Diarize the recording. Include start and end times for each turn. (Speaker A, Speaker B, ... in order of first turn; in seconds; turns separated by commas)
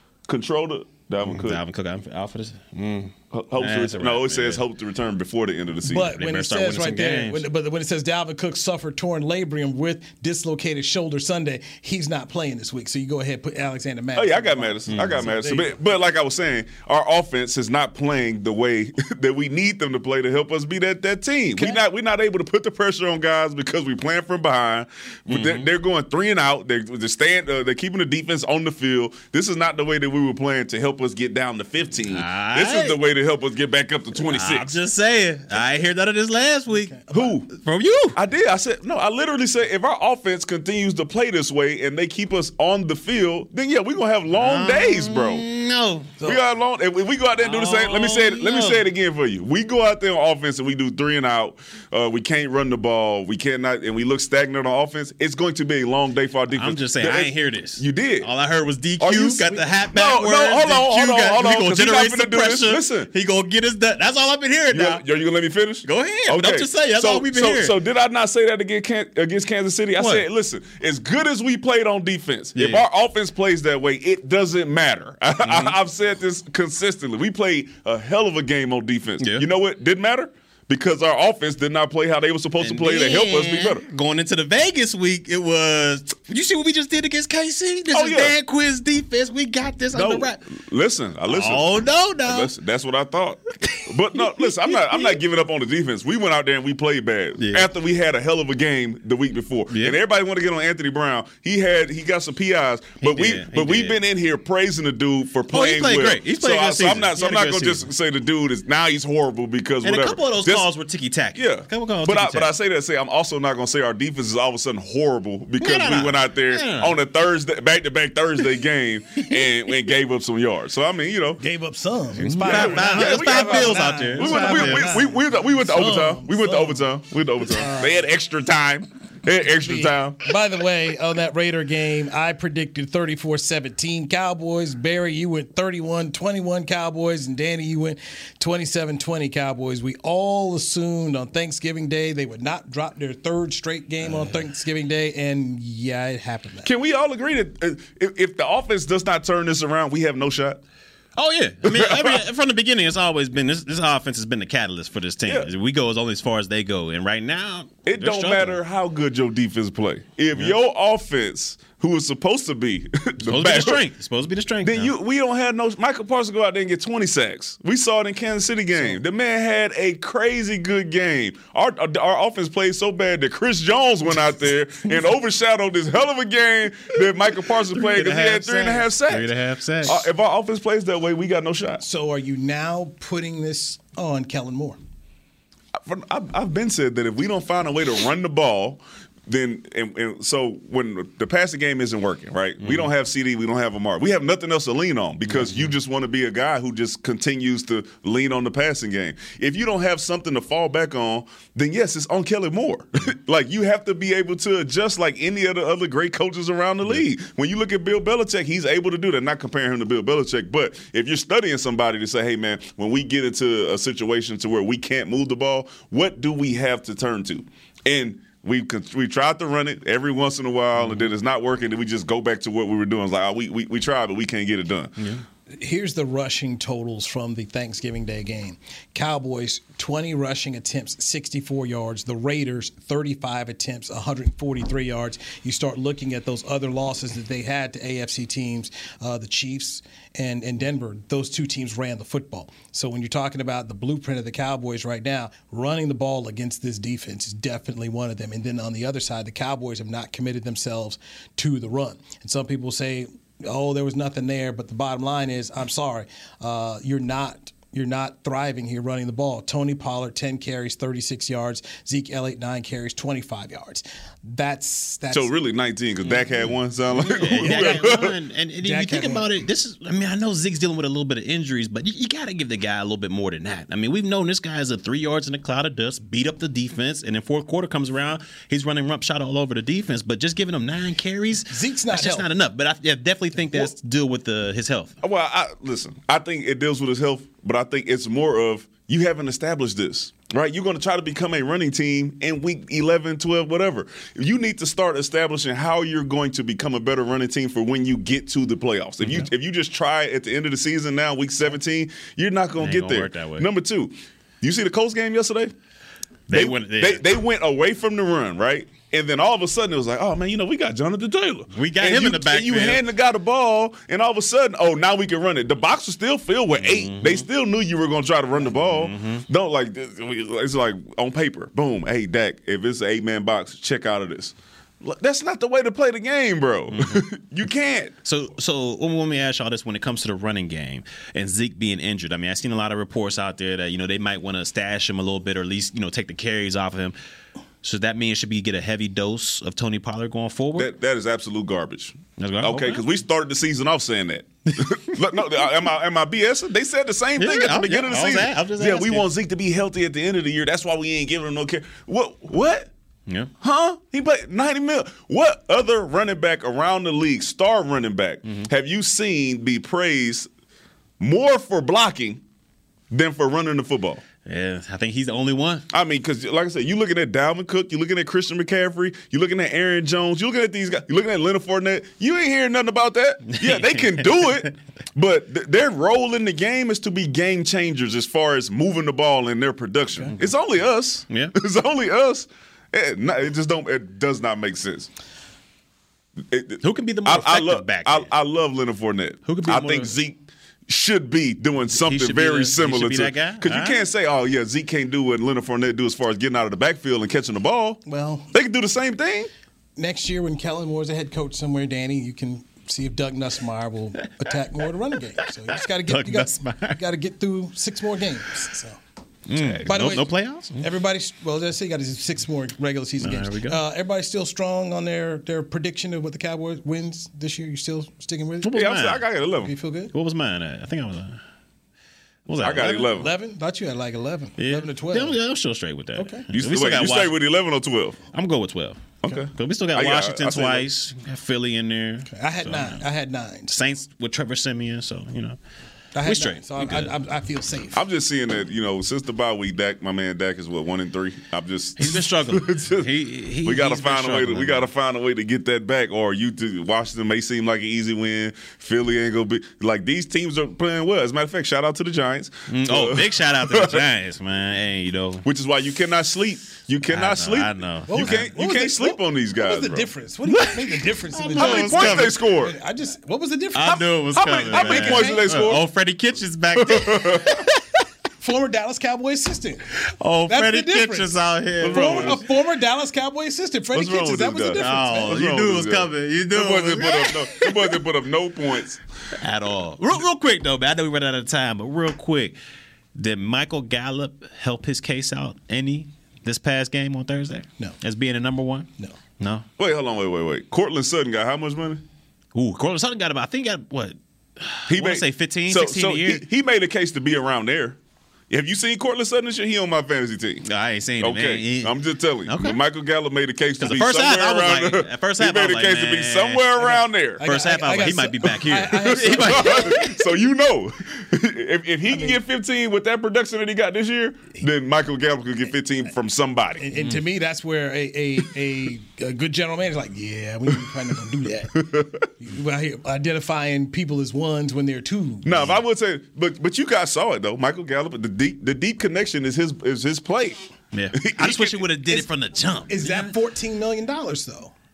Speaker A: 0.3-1.6, Speaker B: 1.2-4.6, Speaker A: 3.3-6.1, Speaker C: 5.8-15.8, Speaker B: 6.0-7.5, Speaker A: 14.1-34.8, Speaker B: 14.9-15.2, Speaker C: 21.6-21.8, Speaker B: 25.3-25.7, Speaker B: 32.1-33.0, Speaker B: 34.1-38.2, Speaker C: 36.7-37.3, Speaker A: 37.1-37.5, Speaker A: 38.1-45.4, Speaker B: 44.3-46.1, Speaker A: 46.2-58.3, Speaker B: 47.4-48.8, Speaker B: 56.5-65.0, Speaker A: 59.0-63.1, Speaker A: 64.7-83.8, Speaker B: 65.8-67.8, Speaker B: 70.0-70.2, Speaker B: 72.5-72.8, Speaker B: 75.4-75.8, Speaker B: 79.2-79.5, Speaker B: 82.6-90.4, Speaker A: 87.9-88.4, Speaker A: 89.9-110.7, Speaker B: 91.3-92.5, Speaker B: 93.7-95.2, Speaker B: 97.4-97.7, Speaker B: 99.7-100.0, Speaker B: 103.0-104.0, Speaker B: 105.5-107.9, Speaker B: 109.8-112.5, Speaker A: 111.3-121.4, Speaker B: 115.6-117.0, Speaker C: 121.4-126.9, Speaker A: 122.2-130.2, Speaker B: 122.2-124.9, Speaker C: 127.5-128.1, Speaker C: 129.6-146.7, Speaker A: 146.6-150.6, Speaker B: 151.2-158.6, Speaker A: 151.6-152.2, Speaker A: 157.8-163.9, Speaker B: 163.2-164.9, Speaker A: 164.6-179.3, Speaker B: 177.8-180.0, Speaker A: 179.8-181.8, Speaker C: 181.8-184.8, Speaker A: 185.8-224.9, Speaker B: 192.6-192.9, Speaker B: 195.3-195.7, Speaker B: 220.8-221.1, Speaker B: 225.0-225.2, Speaker C: 225.5-265.3, Speaker A: 265.1-268.1, Speaker B: 267.0-284.9, Speaker C: 267.2-268.1, Speaker C: 268.6-269.3, Speaker C: 281.5-282.2, Speaker A: 285.0-305.5, Speaker B: 302.6-303.5, Speaker B: 306.3-307.1, Speaker A: 306.3-327.9, Speaker B: 311.5-312.8, Speaker B: 316.6-317.2, Speaker B: 318.5-319.2, Speaker B: 326.7-327.0, Speaker B: 328.0-336.9, Speaker B: 337.6-340.7, Speaker A: 340.6-352.7, Speaker B: 342.2-342.9, Speaker B: 347.2-349.1, Speaker A: 353.4-360.3, Speaker A: 361.0-362.2, Speaker A: 362.9-364.0, Speaker B: 364.2-365.6, Speaker A: 365.7-384.9, Speaker B: 373.3-374.5, Speaker B: 381.1-381.3, Speaker A: 386.3-399.3, Speaker B: 386.6-388.1, Speaker B: 389.2-389.9, Speaker B: 391.7-393.8, Speaker C: 397.9-398.3, Speaker C: 399.8-408.8, Speaker B: 405.8-406.8, Speaker B: 409.3-410.7, Speaker A: 409.3-409.8, Speaker C: 409.7-410.1, Speaker C: 410.6-418.6, Speaker B: 413.0-413.6, Speaker B: 418.4-419.0, Speaker A: 418.5-419.5, Speaker C: 419.4-419.9, Speaker B: 419.9-421.2, Speaker B: 422.3-423.0, Speaker A: 422.4-423.1, Speaker C: 422.8-425.2, Speaker B: 424.4-427.2, Speaker C: 425.9-426.2, Speaker A: 426.3-428.0, Speaker B: 428.1-432.8, Speaker A: 429.0-430.7, Speaker C: 432.1-433.5, Speaker B: 433.5-435.4, Speaker C: 435.9-437.8, Speaker B: 436.0-436.9, Speaker A: 437.7-453.8, Speaker B: 441.8-444.7, Speaker B: 452.5-455.2, Speaker A: 455.2-459.9, Speaker B: 456.8-458.3, Speaker C: 457.9-465.3, Speaker B: 460.3-462.2, Speaker A: 461.3-462.6, Speaker B: 463.5-467.5, Speaker A: 464.2-465.7, Speaker A: 466.6-467.4, Speaker C: 468.2-469.6, Speaker B: 469.9-472.2, Speaker C: 470.3-475.1, Speaker A: 471.6-472.2, Speaker A: 473.7-478.8, Speaker B: 474.6-477.7, Speaker B: 479.2-482.4, Speaker B: 482.9-489.4, Speaker A: 489.6-491.8, Speaker B: 492.3-496.2, Speaker A: 494.7-497.8, Speaker A: 498.3-500.4, Speaker B: 500.4-502.6, Speaker A: 501.0-507.2, Speaker B: 503.6-506.5, Speaker C: 506.6-509.8, Speaker B: 507.2-510.0, Speaker A: 508.6-516.7, Speaker C: 511.9-512.2, Speaker C: 516.6-521.6, Speaker B: 516.8-517.0, Speaker A: 521.5-522.1, Speaker C: 522.2-525.5, Speaker A: 525.2-530.4, Speaker B: 530.7-533.1, Speaker A: 531.0-531.6, Speaker C: 532.7-534.5